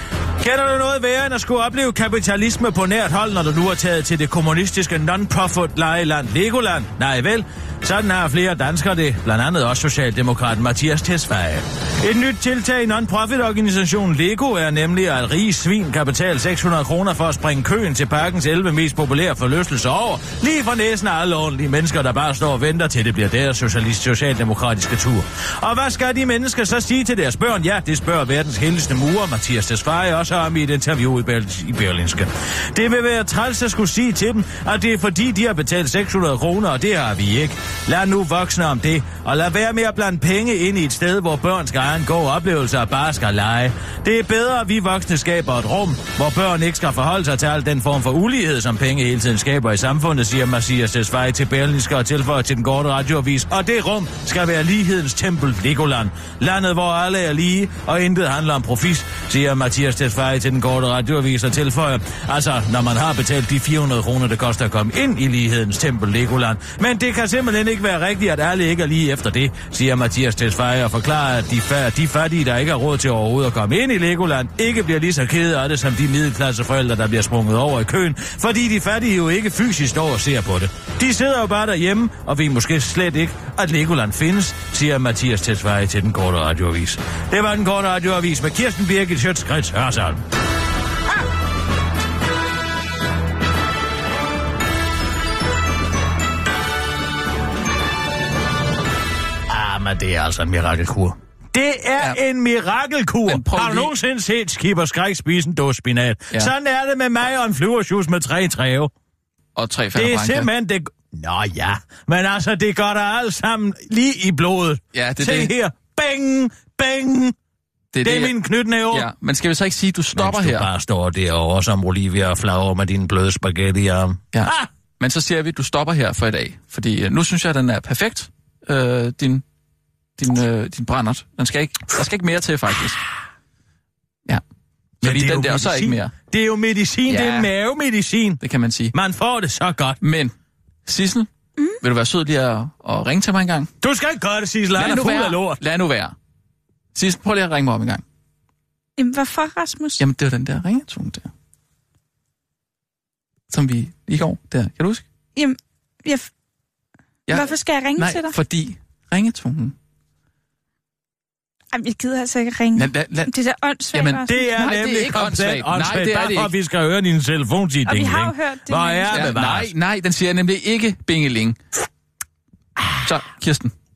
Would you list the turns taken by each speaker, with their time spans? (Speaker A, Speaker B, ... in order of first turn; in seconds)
Speaker A: 0.4-90.2, 99.5-108.9, 109.9-117.3, 118.0-119.1, 120.1-124.7, 135.0-138.4, 138.9-140.0, 143.8-145.6, 164.2-169.7
Speaker B: 103.3-103.9, 109.5-110.5, 114.9-115.5, 117.9-118.3, 118.9-120.7, 124.3-129.4, 130.2-133.0, 135.0-136.1, 137.1-137.5, 138.4-138.9, 140.0-140.3, 140.8-141.3, 141.8-143.7, 144.7-146.1, 146.9-148.0, 150.0-151.3, 153.5-155.0, 157.3-159.7, 162.7-163.3, 163.9-166.5, 169.1-171.6, 173.0-173.7
Speaker C: 149.0-150.0, 155.3-156.3, 157.3-158.4, 161.7-164.7, 167.8-169.2